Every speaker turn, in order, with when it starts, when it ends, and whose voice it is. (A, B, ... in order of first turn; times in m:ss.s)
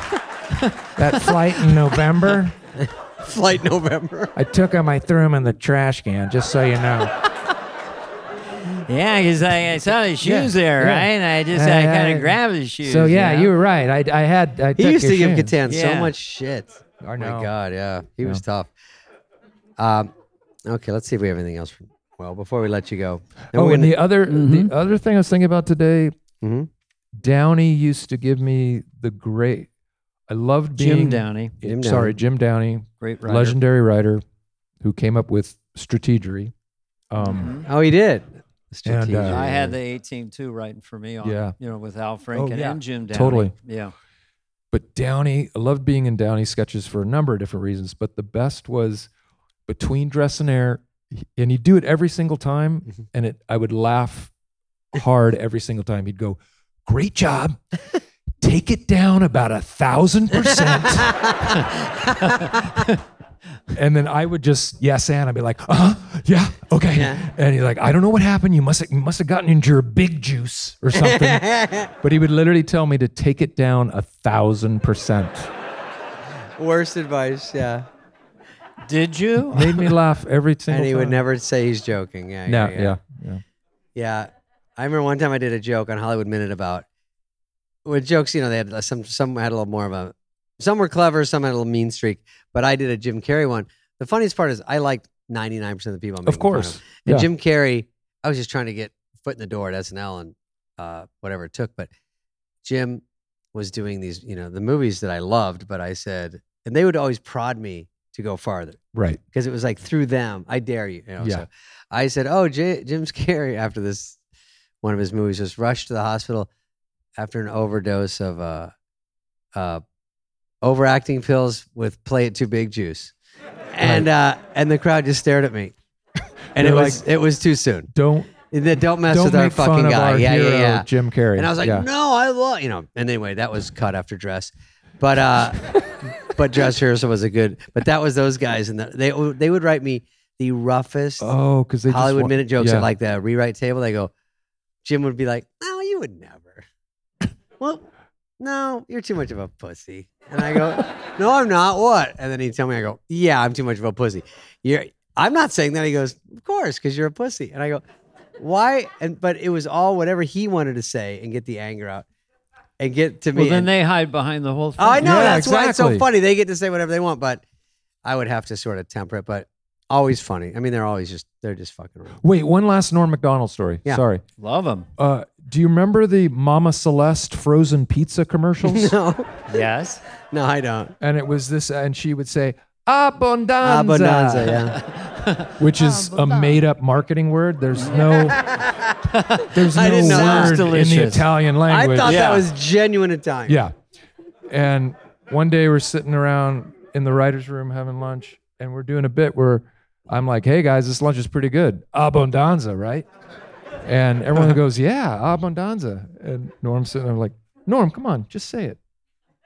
0:00.5-0:01.7 A
0:01.0-0:02.6 B
0:03.2-0:04.4 C
0:04.4-0:07.2 B
0:08.9-0:13.5 A
0:10.2-0:15.5 B
0:14.8-0:18.7 C
0:15.6-0:16.1 A
0:17.0-0:17.5 B
0:19.8-0:20.1 C
0:20.7-0:24.0 C
0:23.5-0:26.2 B
0:24.3-0:24.7 A
0:26.4-0:26.7 C
0:27.2-0:29.7 B
0:30.3-0:34.2 B
0:30.8-0:31.5 A
0:31.6-0:32.2 C
0:33.0-0:33.6 A
0:34.8-0:36.5 B
0:37.1-0:37.6 B
0:37.2-0:37.7 A
0:37.6-0:39.8 C
0:38.8-0:39.4 B
0:39.3-0:43.9 A
0:41.2-0:41.6 B
0:42.3-0:43.5 B
0:44.7-0:49.1 B
0:49.7-0:54.3 B
0:54.9-0:57.8 B
0:58.4-1:01.4 B
1:01.0-1:02.4 C
1:02.2-1:03.0 A
1:03.7-1:15.5 B
1:06.9-1:07.3 C
1:10.9-1:11.9 C
1:16.6-1:17.9 C
1:18.9-1:19.9 A
1:19.5-1:21.2 B
1:20.7-1:23.0 C
1:22.4-1:23.4 B
1:24.0-1:26.9 C
1:27.8-1:41.9 C
1:36.3-1:37.3 B
1:42.6-1:43.0 C
1:43.5-1:48.8 C
1:48.9-1:49.2 B
1:49.3-1:54.2 C
1:51.2-1:51.4 B
1:54.8-1:56.5 C
1:57.2-1:58.7 C
1:59.6-1:59.8 C
2:00.6-2:03.1 C
2:03.7-2:05.7 C
2:03.8-2:04.1 B
2:06.6-2:07.1 B
2:06.6-2:07.9 C
2:07.9-2:08.4 B
2:08.5-2:21.3 C
2:09.0-2:11.9 B
2:21.2-2:22.9 B
2:21.9-2:24.1 C
2:24.8-2:26.6 C
2:27.6-2:27.9 C
2:28.4-2:37.8 C
2:38.4-2:42.1 C
2:42.8-2:43.7 C
2:43.4-2:45.4 A
2:44.8-2:47.4 C
2:45.0-2:46.1 B
2:48.0-2:52.2 C
2:52.2-2:54.2 B
2:54.4-2:54.9 A
2:55.0-2:58.9 B
2:58.7-2:59.4 C
2:59.5-3:00.0 A
3:00.3-3:00.9 C
3:01.0-3:04.6 B
3:03.6-3:04.8 C
3:04.8-3:05.5 A
3:05.6-3:08.4 B
3:07.8-3:08.0 A
3:08.3-3:09.0 C
3:09.1-3:11.3 A
3:09.5-3:12.3 B
3:09.7-3:10.6 C
3:11.7-3:13.6 C
3:12.0-3:12.5 A
3:13.5-3:13.7 B
3:14.5-3:23.1 B
3:23.8-3:28.8 B